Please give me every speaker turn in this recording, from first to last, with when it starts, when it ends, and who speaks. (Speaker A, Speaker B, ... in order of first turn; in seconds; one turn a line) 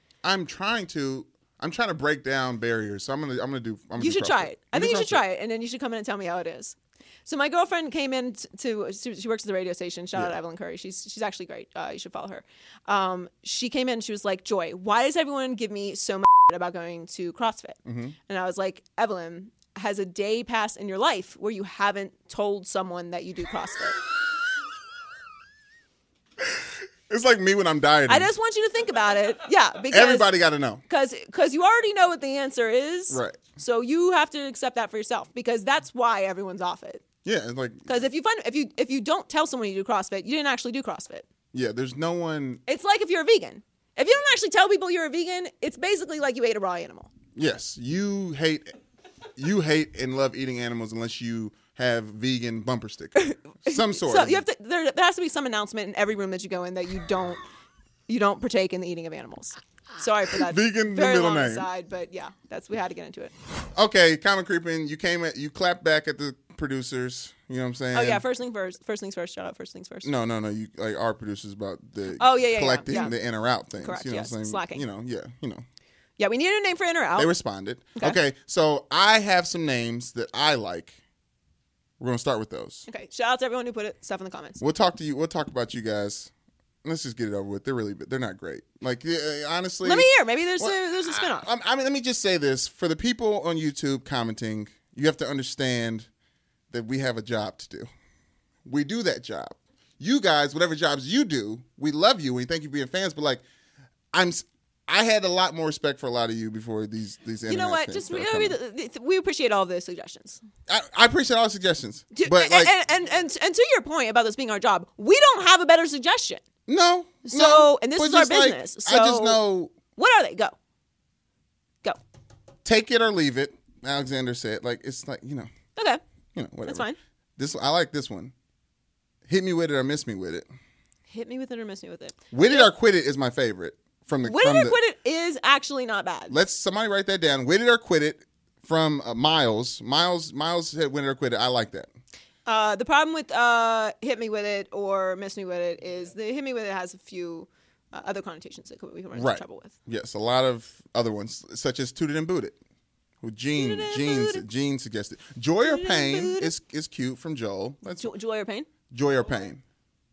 Speaker A: 0.2-5.2
Speaker B: 4.0-24.0
Speaker A: 17.9-18.1
Speaker A: 26.4-28.3
Speaker B: 28.1-30.3
Speaker A: 29.9-30.8
Speaker B: 30.9-37.0
Speaker A: 33.1-33.4
Speaker A: 37.2-37.9
Speaker B: 37.9-41.2
Speaker A: 41.5-42.6
Speaker B: 42.7-47.1
Speaker A: 47.3-48.7
Speaker A: 49.4-54.4
Speaker B: 53.2-57.4
Speaker B: 58.1-63.3
Speaker A: 60.3-61.7
Speaker A: 63.7-68.2
Speaker B: 67.9-70.1
Speaker A: 70.0-75.6
Speaker B: 72.2-73.1
Speaker B: 73.8-74.8
Speaker B: 76.2-77.3
Speaker A: 77.2-81.0
Speaker A: 82.0-82.9
Speaker B: 82.9-84.6
Speaker A: 84.6-86.3
Speaker A: 86.8-96.1
Speaker B: 89.8-91.5
Speaker A: 96.7-97.9
Speaker A: 98.6-103.4
Speaker A: 104.1-108.6
Speaker B: 107.5-110.4
Speaker A: 110.7-112.7
Speaker B: 112.1-116.4
Speaker A: 116.7-119.7
Speaker B: 117.2-120.5
Speaker A: 122.6-125.5
Speaker B: 125.8-126.0
Speaker A: 126.3-128.3
Speaker B: 126.6-127.0
Speaker A: 129.3-130.5
Speaker B: 131.1-132.7
Speaker A: 132.3-134.8
Speaker B: 134.2-136.4
Speaker A: 136.3-141.9
Speaker B: 142.4-149.7
Speaker A: 149.1-152.6
Speaker A: 153.2-158.1
Speaker B: 153.5-154.4
Speaker B: 155.6-156.5
Speaker B: 158.0-158.7
Speaker A: 158.9-159.6